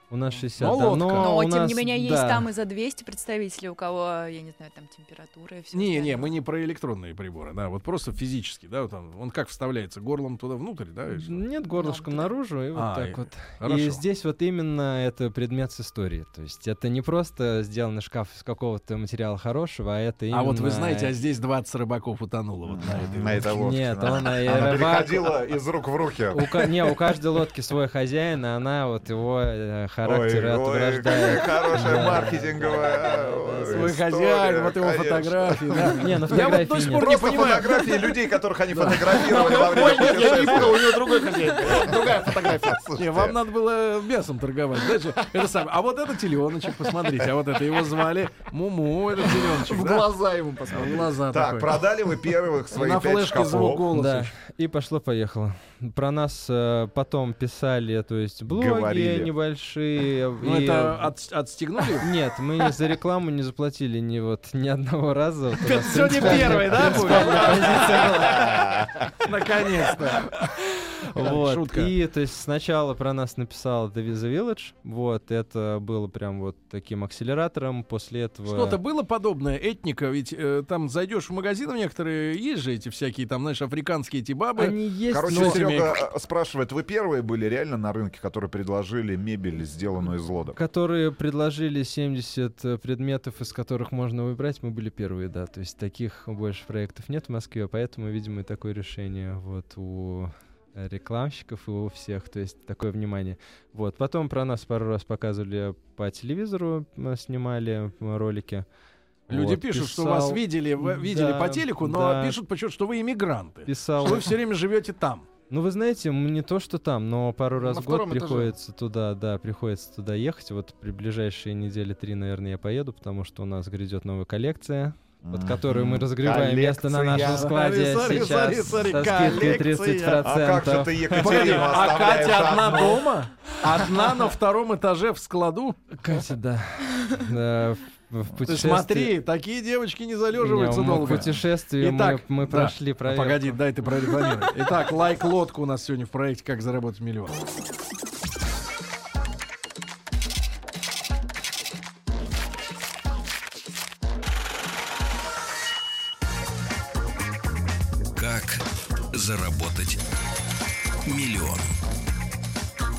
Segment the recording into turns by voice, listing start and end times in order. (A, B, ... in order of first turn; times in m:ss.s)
0:00.1-0:02.5 A
0:00.6-0:01.4 B
0:01.0-0:06.3 C
0:05.7-0:11.4 B
0:11.1-0:21.1 A
0:11.7-0:12.3 C
0:12.8-0:14.0 B
0:20.3-0:23.6 B
0:22.7-0:26.7 D
0:23.2-0:25.4 A
0:26.3-0:34.0 A
0:30.0-0:36.1 D
0:33.7-0:38.1 B
0:36.0-0:37.1 A
0:36.9-0:41.0 D
0:38.7-0:42.8 E
0:38.8-0:40.8 B
0:41.6-0:43.4 D
0:43.0-0:50.1 B
0:49.2-0:51.2 E
0:50.7-0:51.8 B
0:50.7-0:53.9 D
0:52.7-0:54.3 B
0:53.9-1:01.1 A
0:58.5-0:59.3 D
1:00.4-1:02.1 B
1:02.0-1:08.7 A
1:05.6-1:10.5 B
1:08.3-1:09.1 D
1:10.2-1:18.8 A
1:11.2-1:11.9 B
1:18.5-1:26.0 B
1:24.6-1:25.6 A
1:25.1-1:30.6 D
1:30.6-1:48.7 A
1:49.3-1:52.4 A
1:49.3-1:55.3 B
1:53.7-1:54.3 A
1:55.5-2:11.8 A
1:57.6-1:58.5 E
2:05.2-2:07.5 D
2:07.3-2:10.3 B
2:10.2-2:13.1 D
2:11.1-2:16.0 B
2:16.0-2:19.1 A
2:18.5-2:27.4 B
2:20.4-2:23.6 A
2:38.1-2:40.0 F
2:41.0-2:41.7 F